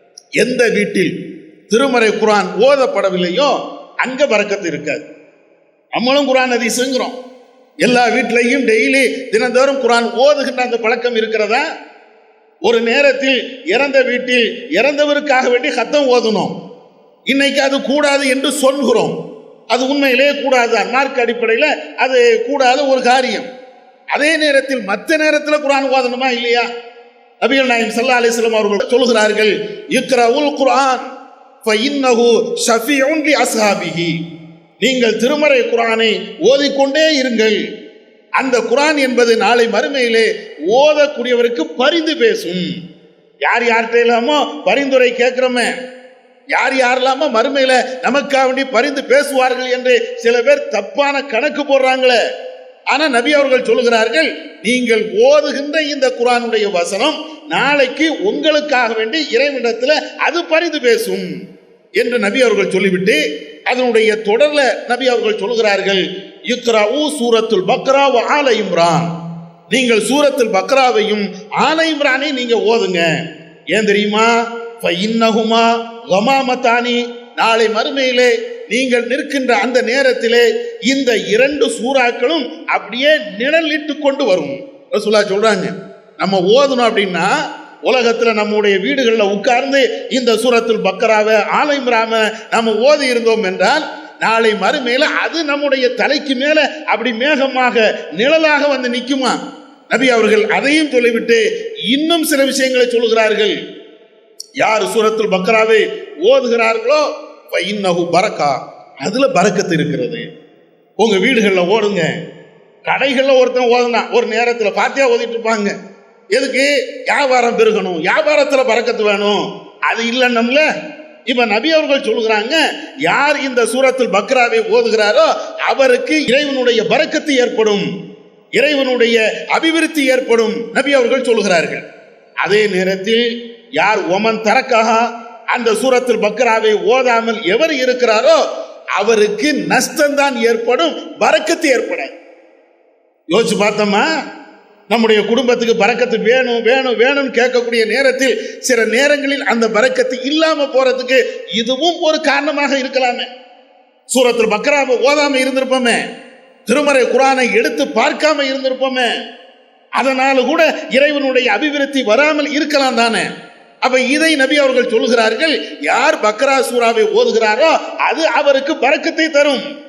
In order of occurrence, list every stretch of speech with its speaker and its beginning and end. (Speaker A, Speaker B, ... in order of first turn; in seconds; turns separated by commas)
Speaker A: 0.4-1.2, Speaker A: 1.7-5.0, Speaker A: 6.0-7.2, Speaker A: 7.8-11.7, Speaker A: 12.7-16.6, Speaker A: 17.3-19.2, Speaker A: 19.7-23.5, Speaker A: 24.1-26.7, Speaker A: 27.4-31.0, Speaker A: 31.6-34.1, Speaker A: 34.8-37.5, Speaker A: 38.4-42.7, Speaker A: 43.5-45.7, Speaker A: 46.5-52.2, Speaker A: 52.9-61.3, Speaker A: 62.0-69.1, Speaker A: 69.7-73.1, Speaker A: 73.7-87.3, Speaker A: 87.9-99.4, Speaker A: 99.9-103.5, Speaker A: 104.6-110.2, Speaker A: 111.0-112.1, Speaker A: 112.9-115.7, Speaker A: 116.3-120.7, Speaker A: 121.3-127.9, Speaker A: 128.6-131.8, Speaker A: 132.4-133.2, Speaker A: 133.8-135.0, Speaker A: 135.5-138.4, Speaker A: 139.0-142.1, Speaker A: 143.3-144.1, Speaker A: 144.9-153.3, Speaker A: 154.1-156.0, Speaker A: 156.7-159.1, Speaker A: 160.0-163.3, Speaker A: 163.8-169.7